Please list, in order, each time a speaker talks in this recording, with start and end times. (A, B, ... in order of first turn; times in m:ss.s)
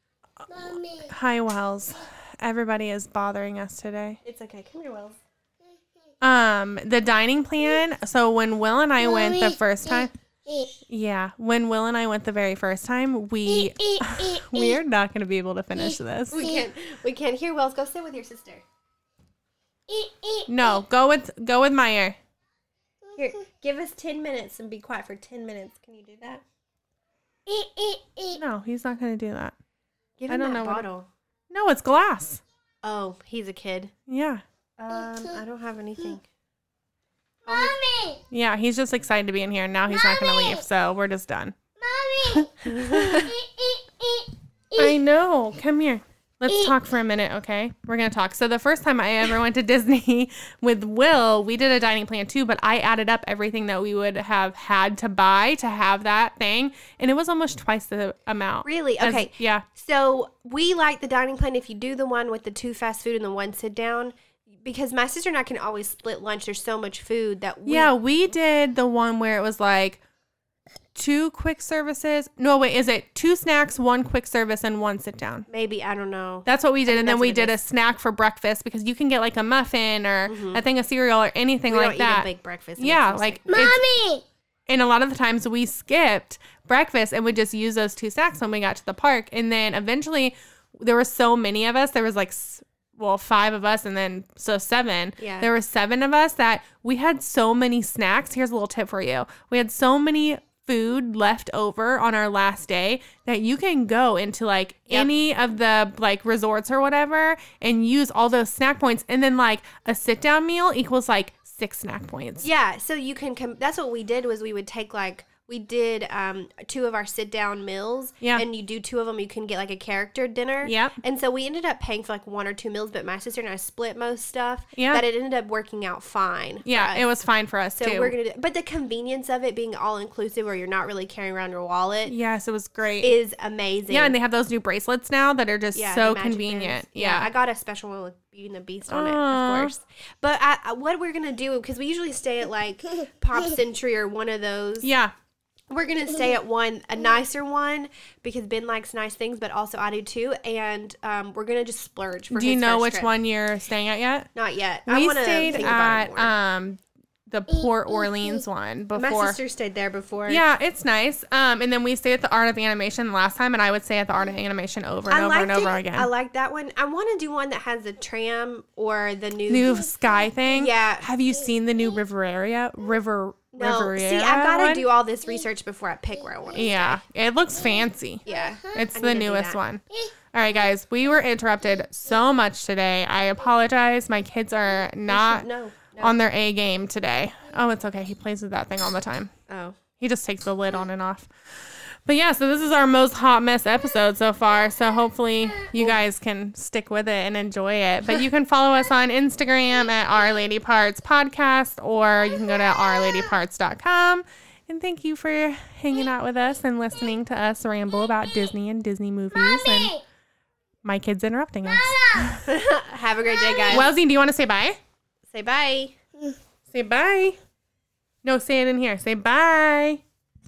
0:00.5-0:01.1 A
0:00.5-0:04.2 B
0:04.2-0:05.2 C
0:05.6-0:06.1 A
0:06.2-0:10.1 B
0:09.0-0:10.7 A
0:10.9-0:16.5 B
0:13.4-0:14.8 A
0:15.7-0:16.7 A
0:16.3-0:18.6 C
0:19.9-0:20.8 A
0:20.5-0:22.2 B
0:23.2-0:26.4 C
0:27.4-0:28.4 A
0:28.3-0:29.5 B
0:30.2-0:31.1 C
0:30.3-0:30.8 B
0:31.5-0:32.4 B
0:32.8-0:33.9 C
0:34.1-0:34.4 B
0:34.8-0:36.2 C
0:35.0-0:35.4 A
0:37.4-0:38.2 A
0:37.5-0:37.8 C
0:38.3-0:41.5 B
0:39.9-0:40.6 A
0:41.8-0:45.0 A
0:42.3-0:43.2 B
0:42.6-0:43.3 C
0:44.8-0:59.6 B
0:46.5-0:46.7 A
0:58.6-1:07.9 C
1:07.6-1:10.0 B
1:10.9-1:15.5 B
1:15.5-1:17.6 C
1:16.4-1:23.8 B
1:20.3-1:20.6 C
1:21.7-1:23.5 C
1:23.5-1:24.2 A
1:24.7-1:52.5 B
1:35.2-1:35.5 C
1:52.4-2:07.0 C
2:00.6-2:01.0 B
2:04.7-2:05.0 B
2:06.6-2:08.1 B
2:07.8-2:12.1 C
2:12.0-2:13.2 B
2:13.0-2:14.1 C
2:13.9-2:17.3 B
2:15.7-2:24.9 C
2:18.9-2:19.7 B
2:24.8-2:25.1 B
2:25.7-2:33.1 C
2:32.3-2:34.3 B
2:34.3-2:36.3 C
2:34.9-2:39.4 B
2:37.5-2:38.4 A
2:38.9-2:40.4 C
2:40.3-2:46.1 B
2:45.1-2:49.9 C
2:49.5-2:54.8 B
2:49.6-2:50.4 A
2:50.5-2:51.1 C
2:53.5-2:57.0 C
2:56.5-3:05.5 B
2:57.6-2:58.9 A
2:58.2-2:59.6 C
3:01.6-3:02.0 A
3:05.1-3:06.2 C
3:06.0-3:09.3 B
3:09.5-3:09.8 C
3:10.0-3:30.0 B
3:22.3-3:23.4 A
3:28.0-3:28.5 A
3:29.3-3:30.0 A
3:30.8-3:32.5 B
3:31.6-3:32.4 A
3:32.4-3:33.9 C
3:33.2-3:33.9 A
3:33.7-3:34.8 B
3:35.3-3:36.0 C
3:36.7-3:37.4 B
3:38.2-3:40.0 B